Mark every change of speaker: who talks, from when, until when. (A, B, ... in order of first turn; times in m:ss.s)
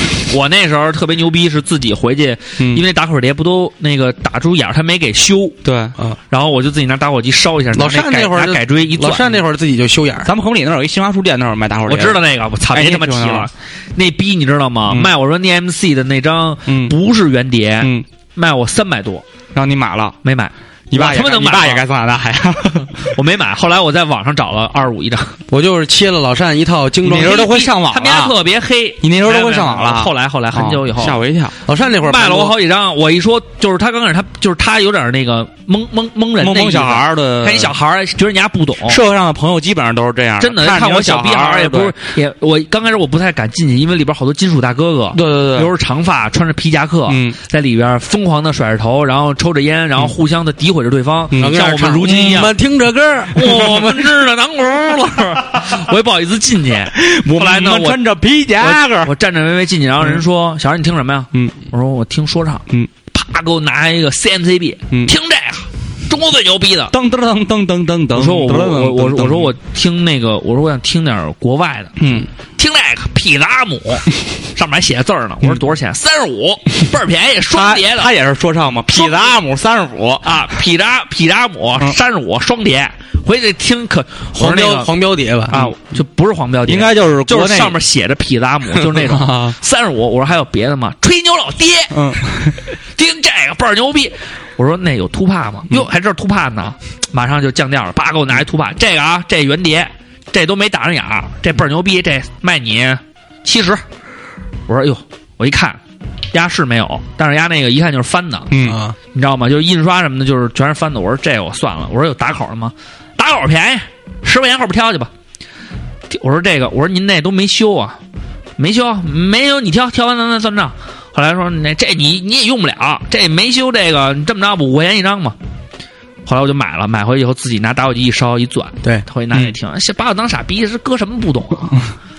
0:00.3-0:05.6 A
0:05.6-0:06.0 B
0:06.3-0:09.4 A
0:07.7-0:10.3 C
0:10.2-0:13.5 B
0:11.9-0:19.2 A
0:16.7-0:16.9 B
0:19.5-0:20.2 B
0:20.2-0:21.8 A
0:20.9-0:23.1 B
0:23.0-0:25.4 A
0:25.5-0:27.4 C
0:27.0-0:28.4 B
0:27.2-0:31.2 A
0:29.0-0:31.6 B
0:31.6-0:32.6 C
0:32.0-0:39.0 A
0:36.4-0:37.8 B
0:38.9-0:42.0 B
0:40.4-0:52.5 A
0:45.1-0:45.7 B
0:47.1-0:47.4 B
0:51.4-0:53.6 C
0:53.3-0:58.0 A
0:56.9-0:59.1 B
0:58.6-1:06.9 A
1:06.9-1:09.5 B
1:08.1-1:11.9 A
1:12.0-1:12.3 B
1:12.6-1:18.1 A
1:17.5-1:20.3 B
1:18.9-1:19.3 A
1:20.2-1:24.9 A
1:24.4-1:25.6 C
1:25.5-1:32.2 A
1:26.7-1:27.8 B
1:28.8-1:29.6 B
1:31.9-1:32.6 B
1:32.9-1:43.8 A
1:44.7-1:45.8 A
1:46.3-1:48.6 A
1:48.5-1:48.8 B
1:48.6-1:49.0 C
1:49.1-1:55.1 A
1:56.1-1:58.0 A
1:58.6-2:05.4 A
2:06.3-2:11.8 A